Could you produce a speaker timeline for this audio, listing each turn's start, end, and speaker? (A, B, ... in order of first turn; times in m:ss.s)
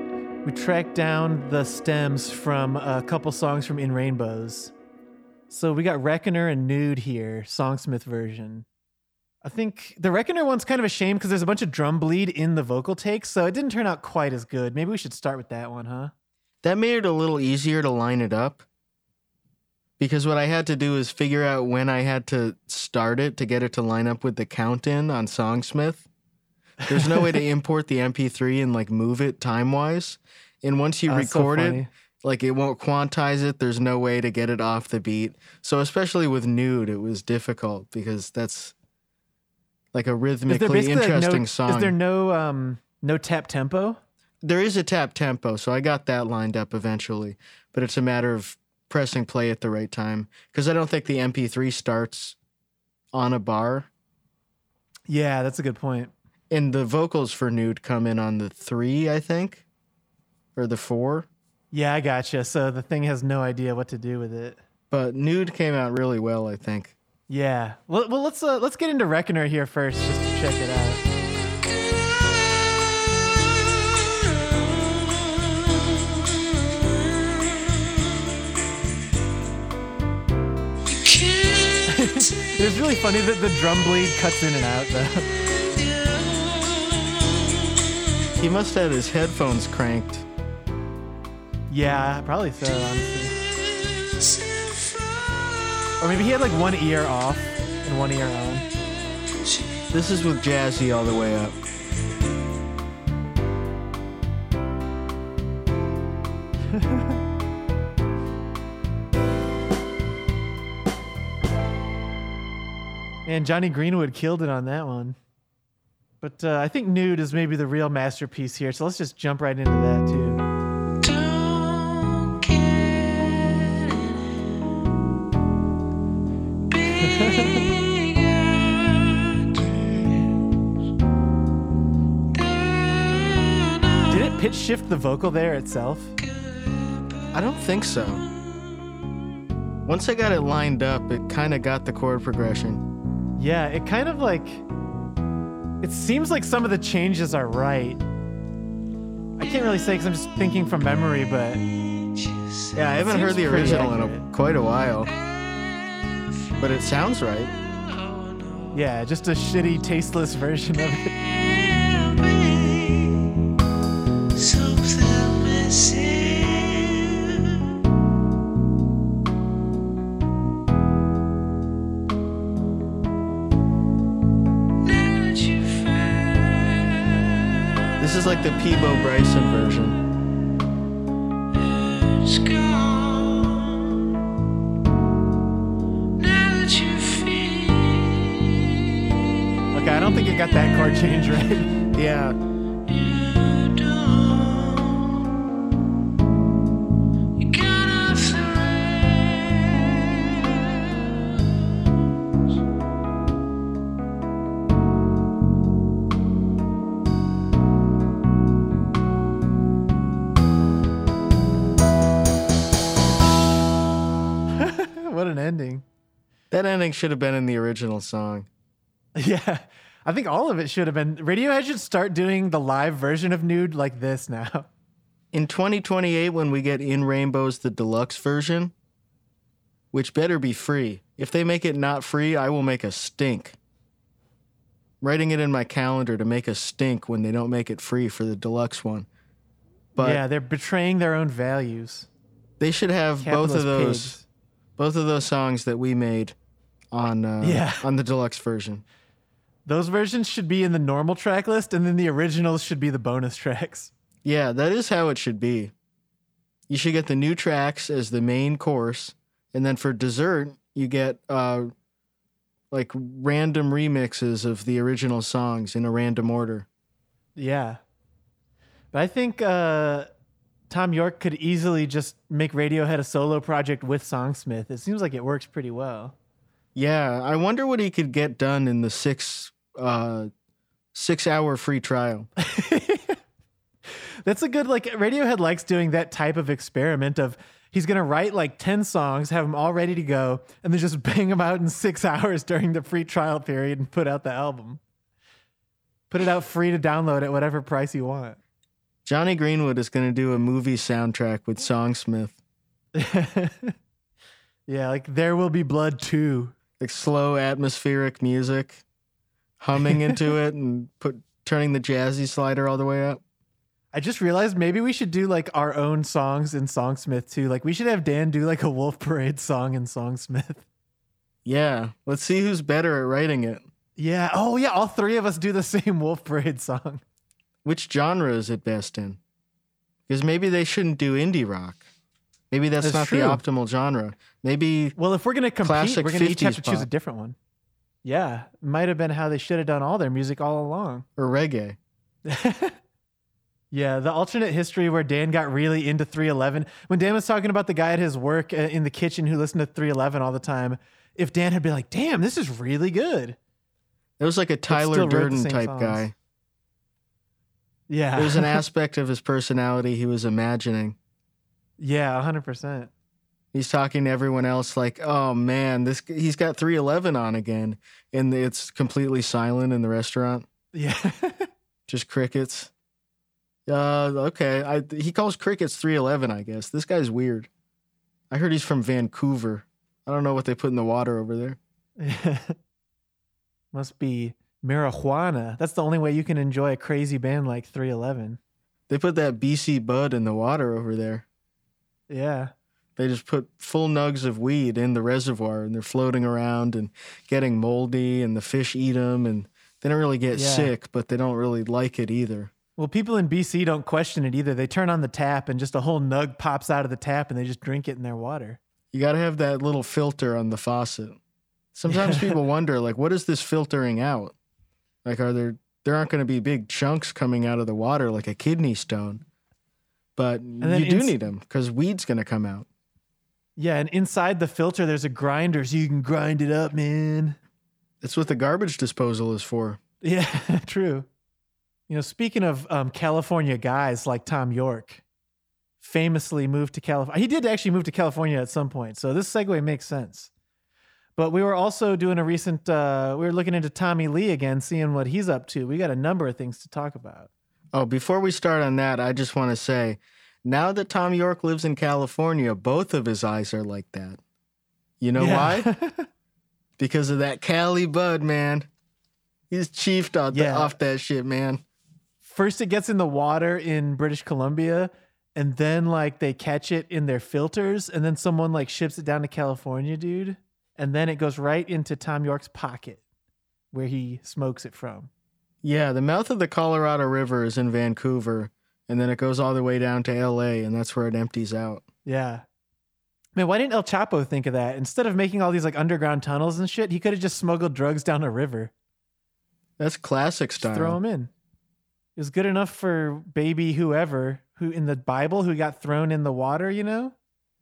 0:00.4-0:04.7 A
0:05.5-0:08.6 A
0:09.4-0:16.1 A
0:16.6-0:18.6 B
0:20.0-0:26.0 B
0:26.9-0:38.7 B
0:31.1-0:31.9 A
0:39.9-0:41.9 B
0:40.5-0:44.0 A
0:44.4-0:52.4 B
0:53.1-0:53.9 B
0:55.1-0:56.1 A
0:56.5-0:59.6 B
1:00.5-1:01.3 B
1:01.7-1:04.6 A
1:04.9-1:06.9 B
1:07.3-1:11.0 A
1:11.5-1:18.4 C
1:20.9-1:22.6 C
1:21.9-1:25.3 A
1:25.4-1:28.3 C
1:28.4-1:30.2 B
1:31.7-1:33.4 A
1:33.3-1:35.9 C
1:36.0-1:38.6 A
1:39.9-1:41.6 B
1:46.7-1:47.1 A
1:53.2-1:55.2 A
1:56.2-2:00.4 A
2:01.0-2:04.6 C
2:06.7-2:10.4 C
2:07.0-2:07.6 A
2:12.3-2:14.3 C
2:14.1-2:16.2 A
2:16.2-2:18.3 C
2:17.3-2:18.2 B
2:19.8-2:22.8 B
2:23.4-2:24.6 A
2:25.8-2:28.0 A
2:29.4-2:31.6 A
2:31.9-2:32.8 C
2:32.7-2:35.1 B
2:33.0-2:34.2 A
2:35.0-2:38.8 C
2:36.6-2:37.5 B
2:38.7-2:41.1 A
2:40.8-2:43.3 C
2:44.3-2:47.7 C
2:54.8-2:59.8 C
2:58.0-3:00.0 B
3:01.5-3:04.2 C
3:06.2-3:09.4 C
3:09.7-3:11.7 A
3:11.9-3:12.4 B
3:12.8-3:15.2 C
3:17.4-3:22.0 C
3:34.6-3:35.8 A
3:36.5-3:38.5 B
3:39.2-3:44.7 A
3:45.3-3:48.7 B
3:49.9-3:53.6 B
3:55.0-3:59.1 B
4:00.0-4:02.1 A
4:00.0-4:00.2 B
4:02.6-4:04.2 B
4:03.2-4:04.2 A
4:04.8-4:06.4 B
4:06.9-4:08.8 B
4:07.4-4:07.8 A
4:09.6-4:13.9 A
4:14.2-4:15.7 B
4:16.7-4:21.7 B
4:22.7-4:26.6 B
4:27.4-4:27.8 A
4:28.9-4:30.1 A
4:30.7-4:36.1 A
4:36.7-4:40.3 B
4:40.9-4:42.3 B
4:42.4-4:43.2 A
4:44.2-4:54.8 A
4:56.1-4:58.4 A
4:59.0-5:02.4 B
5:02.9-5:03.8 A
5:04.7-5:06.5 A
5:06.8-5:08.8 B
5:09.6-5:13.2 B
5:13.9-5:20.6 A
5:21.4-5:23.6 B
5:24.0-5:27.0 A
5:27.6-5:29.2 B
5:30.1-5:31.8 B
5:32.5-5:34.9 B
5:32.8-5:33.4 A
5:35.0-5:37.4 A
5:35.6-5:36.9 B
5:38.0-5:41.0 A
5:41.2-5:41.8 B
5:42.2-5:42.8 A
5:43.7-5:53.4 A
5:54.2-5:56.1 B
5:54.7-5:56.1 A
5:57.9-5:58.6 A
5:58.2-6:01.0 B
6:01.8-6:02.9 A
6:03.5-6:10.4 B
6:10.7-6:11.5 A
6:11.9-6:12.7 B
6:13.7-6:17.5 B
6:18.3-6:21.6 B
6:22.0-6:22.6 A
6:23.7-6:28.4 A
6:28.9-6:31.2 B
6:32.1-6:32.5 A
6:33.0-6:42.5 B
6:40.3-6:40.7 A
6:42.8-6:48.6 A
6:48.9-6:51.2 B
6:51.7-6:54.3 B
6:51.9-6:52.4 A
6:55.0-6:59.2 B
7:00.2-7:02.6 B
7:00.6-7:01.1 A
7:03.6-7:07.4 A
7:08.0-7:09.8 B
7:10.0-7:11.1 A
7:11.9-7:15.0 A
7:15.8-7:20.3 A
7:21.2-7:27.3 A
7:27.7-7:34.2 B
7:35.0-7:35.7 B
7:35.2-7:36.1 A
7:36.8-7:38.7 B
7:39.5-7:41.6 B
7:40.3-7:40.7 A
7:42.2-7:53.0 A
7:53.7-7:55.1 A
7:55.6-8:01.8 B
8:02.0-8:02.4 A
8:03.4-8:08.7 A
8:09.8-8:11.0 B
8:10.6-8:11.3 A
8:12.2-8:17.1 A